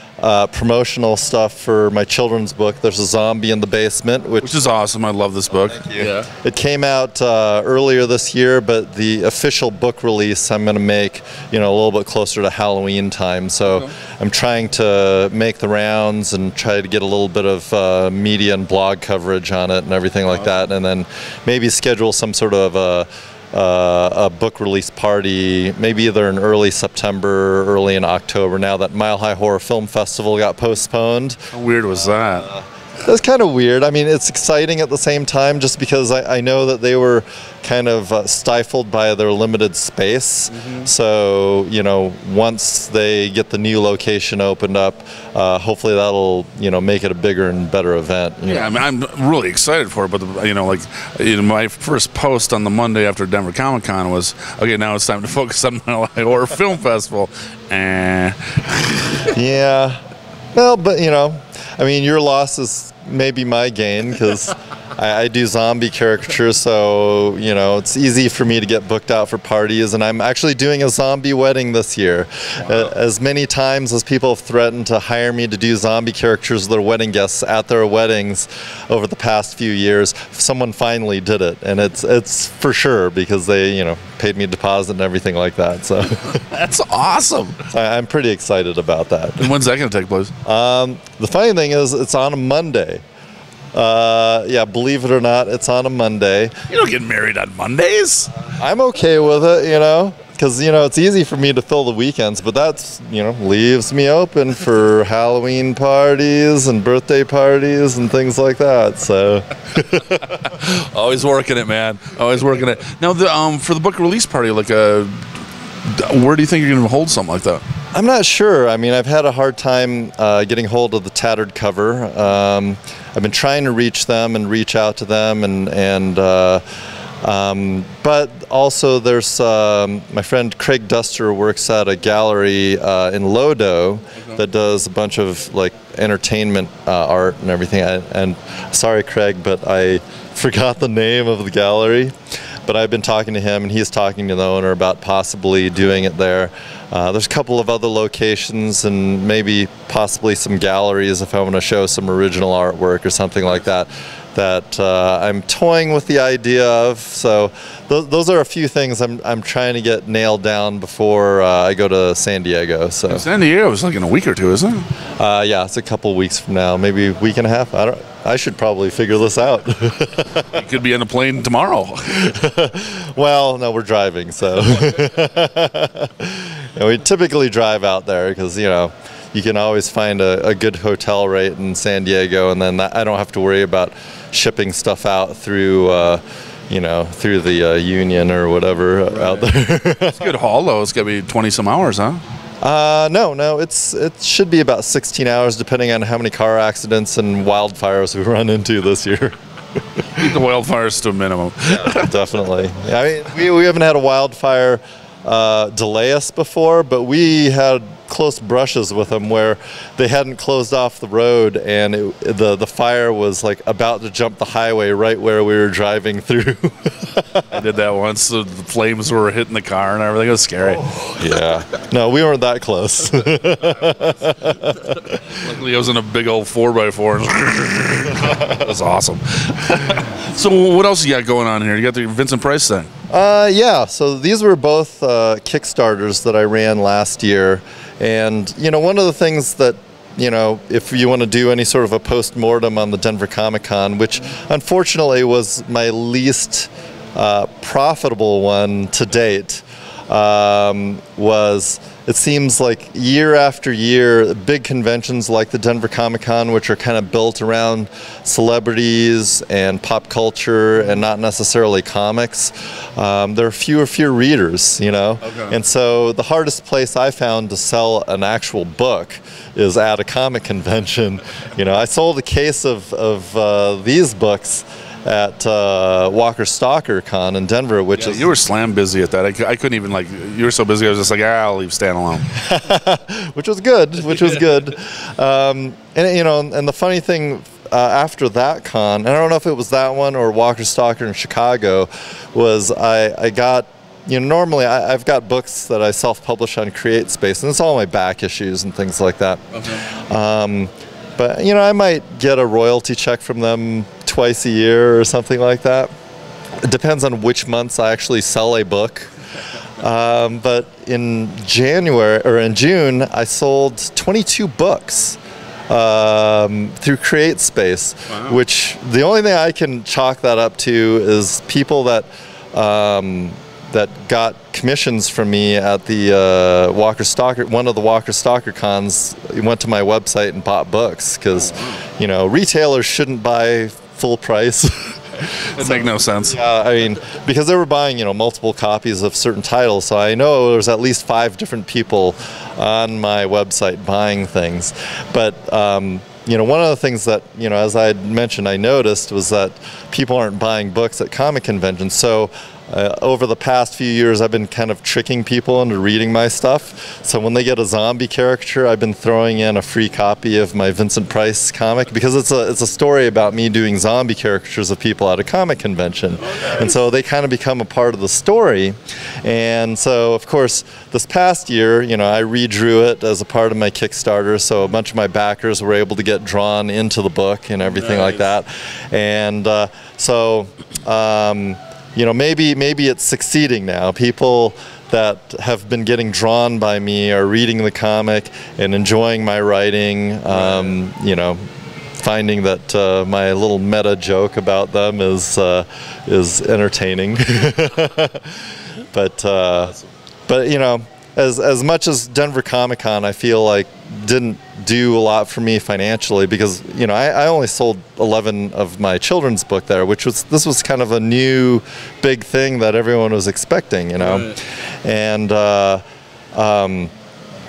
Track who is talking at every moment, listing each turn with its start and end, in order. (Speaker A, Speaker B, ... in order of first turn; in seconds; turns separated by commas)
Speaker A: 0.2-4.5, Speaker B: 4.4-6.3, Speaker A: 5.7-31.5, Speaker B: 31.5-32.5, Speaker A: 33.0-48.7, Speaker B: 40.5-40.9, Speaker B: 48.4-59.4, Speaker A: 59.3-60.0, Speaker A: 60.5-86.4, Speaker B: 86.4-87.6, Speaker A: 87.7-89.5, Speaker B: 89.4-90.3, Speaker A: 90.4-93.0, Speaker A: 93.7-96.6, Speaker B: 96.7-98.3, Speaker A: 98.5-110.4, Speaker B: 110.3-117.6, Speaker A: 117.9-126.6, Speaker A: 127.2-142.1, Speaker A: 142.7-163.2, Speaker B: 163.1-164.9, Speaker A: 165.2-170.6, Speaker B: 170.5-172.3, Speaker A: 172.1-190.2, Speaker B: 189.1-189.5, Speaker B: 190.1-192.2, Speaker A: 192.6-199.3, Speaker B: 200.2-202.1, Speaker A: 201.7-217.5, Speaker B: 217.5-221.0, Speaker A: 221.0-225.2, Speaker B: 225.2-232.9, Speaker A: 233.1-278.3, Speaker B: 265.2-265.6, Speaker B: 278.0-282.3, Speaker A: 282.4-305.9, Speaker B: 299.5-299.8, Speaker A: 306.6-309.1, Speaker A: 309.8-315.2, Speaker A: 315.7-391.4, Speaker B: 318.1-318.4, Speaker B: 331.3-331.8, Speaker B: 335.6-336.4, Speaker B: 366.3-366.6, Speaker B: 377.6-378.2, Speaker B: 390.3-390.8, Speaker A: 392.0-399.8, Speaker A: 400.3-415.8, Speaker B: 414.0-414.3, Speaker A: 416.3-416.9